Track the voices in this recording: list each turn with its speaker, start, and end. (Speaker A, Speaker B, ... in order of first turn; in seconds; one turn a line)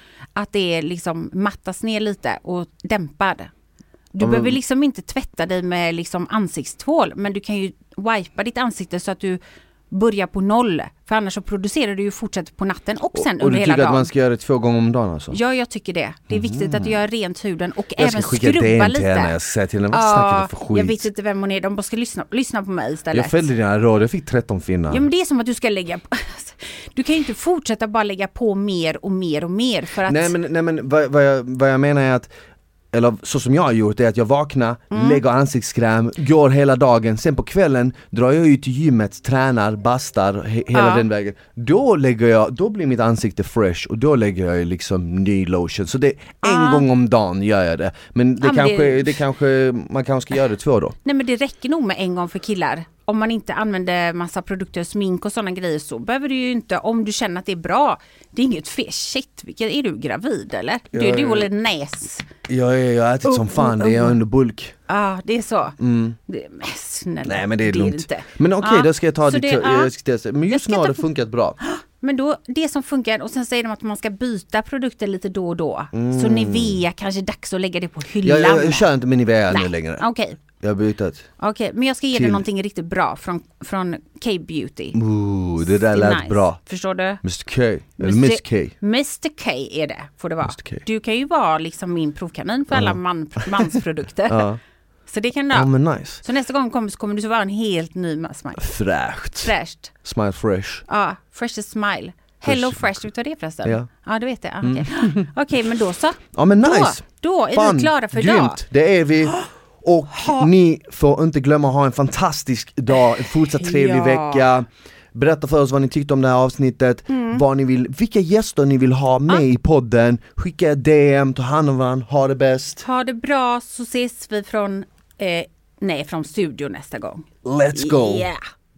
Speaker A: 0.3-3.5
Speaker A: 4.1-14.1
Speaker B: 4.2-4.6
Speaker B: 13.1-15.4
Speaker A: 15.3-19.4
Speaker B: 16.3-17.0
Speaker B: 18.0-21.1
Speaker A: 19.9-23.5
Speaker B: 23.1-25.0
Speaker A: 24.9-30.3
Speaker B: 30.1-32.3
Speaker B: 32.9-51.0
Speaker A: 34.9-35.2
Speaker A: 40.7-41.1
Speaker A: 46.4-46.9
Speaker A: 48.4-49.2
Speaker A: 51.0-62.3
Speaker B: 60.9-61.5
Speaker B: 62.5-64.8
Speaker A: 63.2-64.2
Speaker A: 64.9-69.9
Speaker B: 65.8-66.2
Speaker B: 67.2-71.6
Speaker A: 70.5-71.1
Speaker A: 71.6-78.9
Speaker B: 75.9-76.8
Speaker B: 78.2-80.0
Speaker A: 79.5-80.4
Speaker B: 80.6-81.3
Speaker A: 81.4-85.0
Speaker B: 82.1-82.4
Speaker B: 84.9-86.6
Speaker A: 85.8-87.2
Speaker B: 87.2-88.7
Speaker A: 88.0-94.5
Speaker B: 90.5-90.8
Speaker B: 92.7-93.7
Speaker B: 94.3-94.6
Speaker A: 95.1-95.7
Speaker B: 95.5-96.2
Speaker A: 96.2-98.7
Speaker B: 98.6-100.8
Speaker A: 99.4-99.9
Speaker A: 100.9-108.6
Speaker B: 102.5-103.0
Speaker B: 104.6-105.3
Speaker B: 106.3-122.8
Speaker A: 110.1-110.5
Speaker A: 113.5-114.5
Speaker A: 117.1-117.4
Speaker A: 122.8-128.4
Speaker B: 127.4-128.3